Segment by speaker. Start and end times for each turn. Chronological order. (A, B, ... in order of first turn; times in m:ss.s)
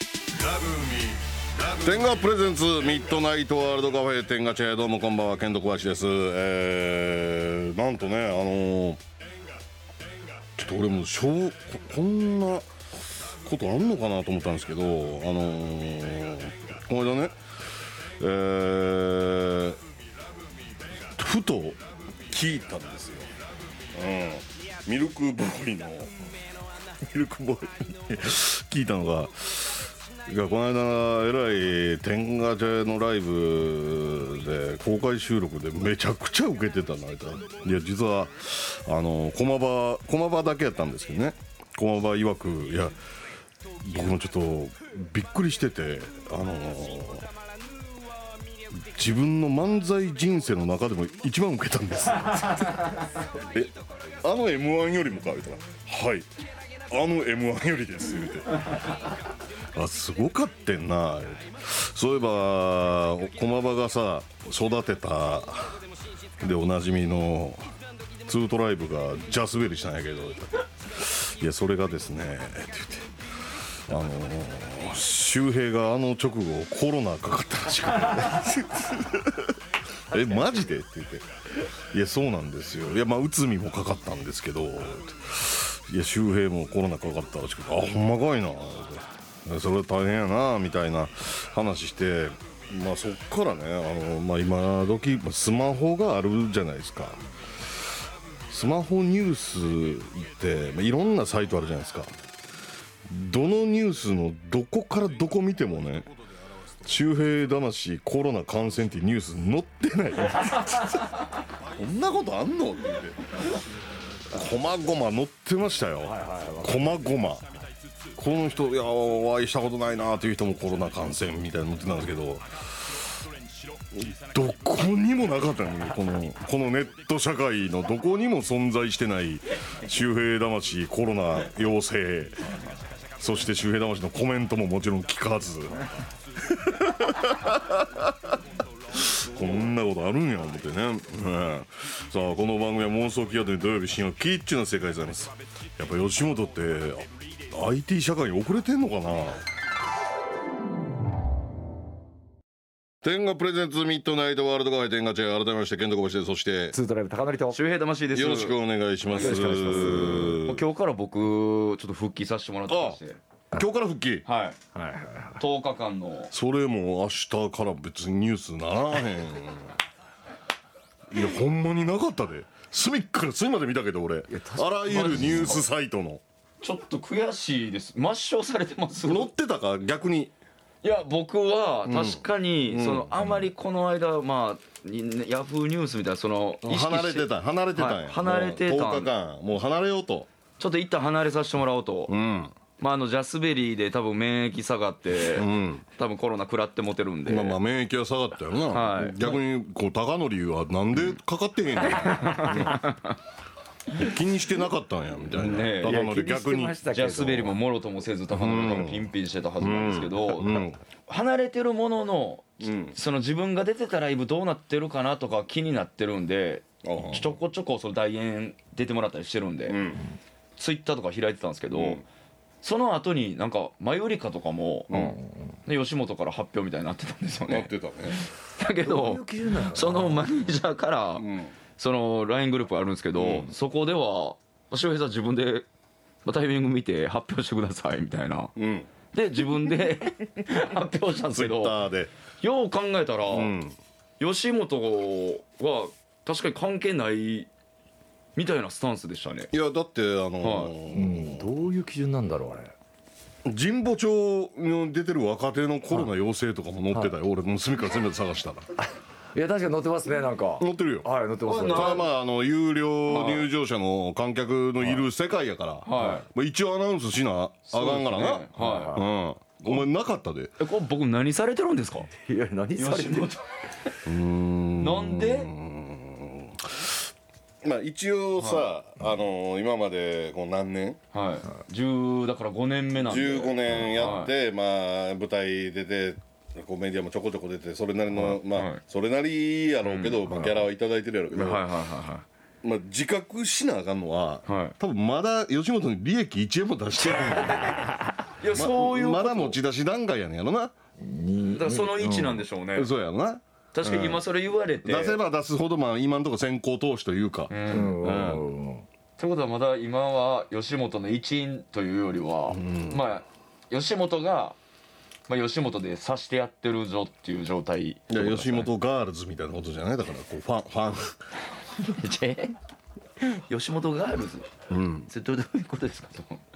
0:00.4-0:09.0 A
0:10.6-0:12.7 A
0:13.4-0:17.4 A
0:18.2-0:19.8 A
0:21.2-0:23.3 A
0:23.9-0:26.2 A
0:27.0-0:43.0 A
0:43.8-0:47.3 A
0:48.7-0:56.3 A
0:56.9-0:58.8 A
0:59.8-1:05.8 A
1:06.4-1:07.6 A
1:08.2-1:13.1 A
1:13.9-1:19.5 A
1:20.1-1:21.2 A
1:21.9-1:37.2 A
1:38.5-1:42.1 A
1:43.1-1:46.1 A
1:46.8-1:51.0 A
1:51.6-1:53.4 A
1:54.3-1:57.5 A
1:56.0-1:57.0 B
1:58.2-2:03.2 A
2:03.9-2:12.5 A
2:13.2-2:15.9 A
2:16.4-2:18.3 A
2:18.9-2:29.4 A
2:33.0-2:36.8 A
2:36.7-2:37.6 B
2:37.5-2:38.6 C
2:38.1-2:40.6 A
2:39.1-2:43.2 C
2:39.2-2:40.4 B
2:42.7-2:43.0 A
2:43.5-2:44.3 A
2:44.3-2:44.6 C
2:44.8-2:45.4 B
2:45.4-2:46.3 C
2:46.3-2:49.7 A
2:51.1-2:56.2 A
2:54.3-2:55.5 B
2:54.9-2:55.7 C
2:56.6-2:59.3 C
2:59.1-3:00.3 A
3:00.8-3:09.1 C
3:01.9-3:03.2 A
3:06.6-3:10.3 A
3:10.6-3:12.1 C
3:12.1-3:12.5 A
3:12.8-3:17.6 C
3:15.3-3:15.8 A
3:17.3-3:22.8 A
3:18.7-3:19.4 C
3:21.8-3:23.2 C
3:23.9-3:26.8 A
3:25.3-3:26.1 C
3:25.8-3:27.6 B
3:26.7-3:39.8 C
3:28.3-3:29.1 A
3:29.6-3:30.8 A
3:32.6-3:33.0 A
3:36.8-3:37.4 A
3:39.7-3:40.0 A
3:40.6-3:42.0 C
3:41.7-3:42.0 A
3:42.6-3:51.3 C
3:44.9-3:45.2 A
3:47.5-3:48.2 A
3:48.8-3:50.4 B
3:51.2-3:51.5 A
3:51.8-3:55.7 C
3:53.2-3:53.5 A
3:56.2-3:58.5 C
3:58.6-3:58.9 A
3:59.1-4:01.8 C
4:01.3-4:02.1 A
4:02.4-4:03.5 C
4:03.3-4:03.8 A
4:04.2-4:07.5 C
4:08.4-4:09.5 C
4:09.5-4:11.4 A
4:10.4-4:10.7 C
4:10.9-4:12.7 B
4:13.4-4:18.7 A
4:19.3-4:22.0 B
4:20.6-4:21.1 A
4:21.4-4:22.1 C
4:21.6-4:30.5 A
4:23.1-4:23.5 C
4:25.8-4:26.2 C
4:27.7-4:29.0 C
4:28.6-4:29.1 B
4:30.6-4:32.1 C
4:32.2-4:33.3 B
4:32.8-4:34.0 C
4:34.0-4:36.9 A
4:34.8-4:35.5 C
4:37.6-4:41.0 A
4:38.4-4:38.6 C
4:41.1-4:44.3 C
4:43.0-4:51.6 A
4:48.2-4:48.8 C
4:49.9-4:50.4 C
4:51.3-4:52.2 C
4:52.6-4:57.9 A
4:54.5-4:54.8 C
4:57.0-4:59.6 C
4:57.5-4:58.2 B
4:58.5-5:00.7 A
5:01.0-5:02.4 B
5:01.5-5:02.9 C
5:02.8-5:04.2 A
5:03.7-5:05.2 C
5:04.8-5:08.4 A
5:07.5-5:08.0 C
5:07.7-5:08.9 B
5:09.2-5:14.6 C
5:12.5-5:13.0 A
5:15.3-5:18.7 C
5:18.1-5:21.2 A
5:21.8-5:22.6 C
5:23.2-5:24.5 C
5:24.7-5:25.1 A
5:25.1-5:26.4 C